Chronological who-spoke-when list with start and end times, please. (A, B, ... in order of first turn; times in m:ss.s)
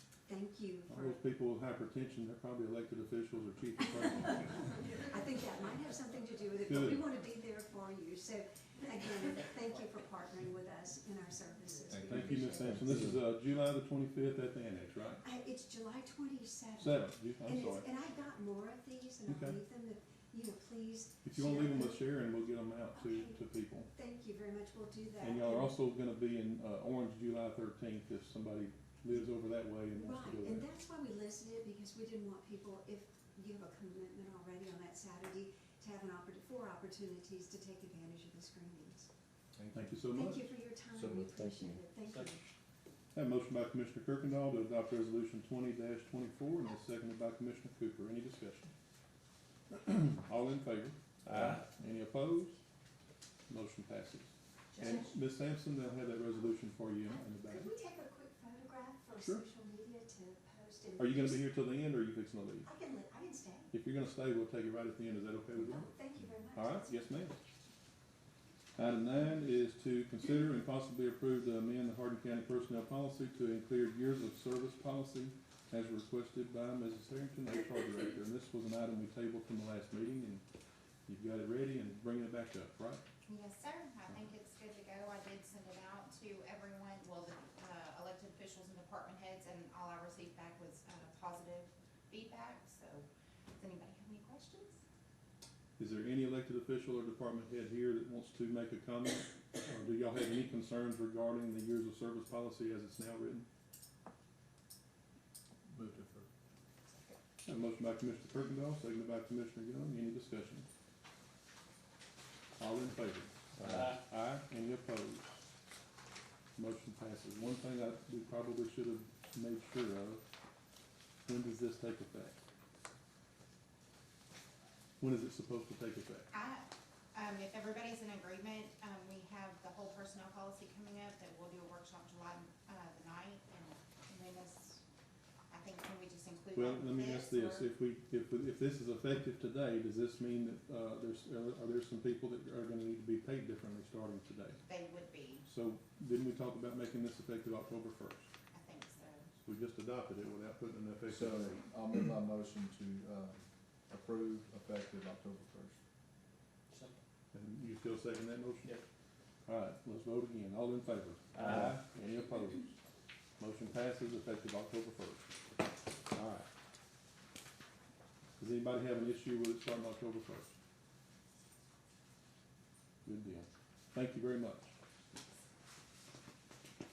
0:00.3-0:01.2 A
0:00.9-0:04.7 B
0:03.8-0:12.9 A
0:06.7-0:07.0 B
0:11.9-0:13.2 C
0:12.0-0:15.2 B
0:15.2-0:22.0 A
0:16.8-0:17.9 B
0:19.3-0:19.6 B
0:21.2-0:23.9 B
0:22.9-0:25.8 A
0:25.2-0:30.7 B
0:30.0-0:39.1 A
0:39.5-0:40.0 C
0:39.7-0:40.4 B
0:40.1-0:42.4 A
0:40.9-0:41.8 C
0:43.1-0:48.7 B
0:49.7-0:52.6 B
0:53.5-0:57.7 B
0:54.8-0:55.1 A
0:57.1-1:01.4 A
0:59.2-0:59.4 B
1:01.0-1:02.7 B
1:02.6-1:03.8 A
1:03.7-1:05.9 B
1:05.6-1:07.2 A
1:06.5-1:07.4 B
1:08.8-1:20.4 B
1:21.1-1:23.0 B
1:23.3-1:34.8 D
1:35.8-1:43.5 B
1:45.7-1:46.3 C
1:47.4-1:50.7 B
1:52.6-1:55.4 B
1:56.6-2:00.2 B
2:01.3-2:02.4 B
2:05.0-2:06.3 B
2:06.3-2:14.8 D
2:15.5-2:17.7 D
2:16.6-2:24.6 B
2:24.7-2:25.4 D
2:25.5-2:28.3 B
2:28.5-2:29.3 D
2:29.4-2:31.6 B
2:31.1-2:35.8 C
2:37.3-2:38.8 B
2:39.5-2:42.8 B
2:43.4-2:45.3 B
2:46.1-2:46.5 B
2:48.4-2:50.6 B
2:53.0-2:54.7 B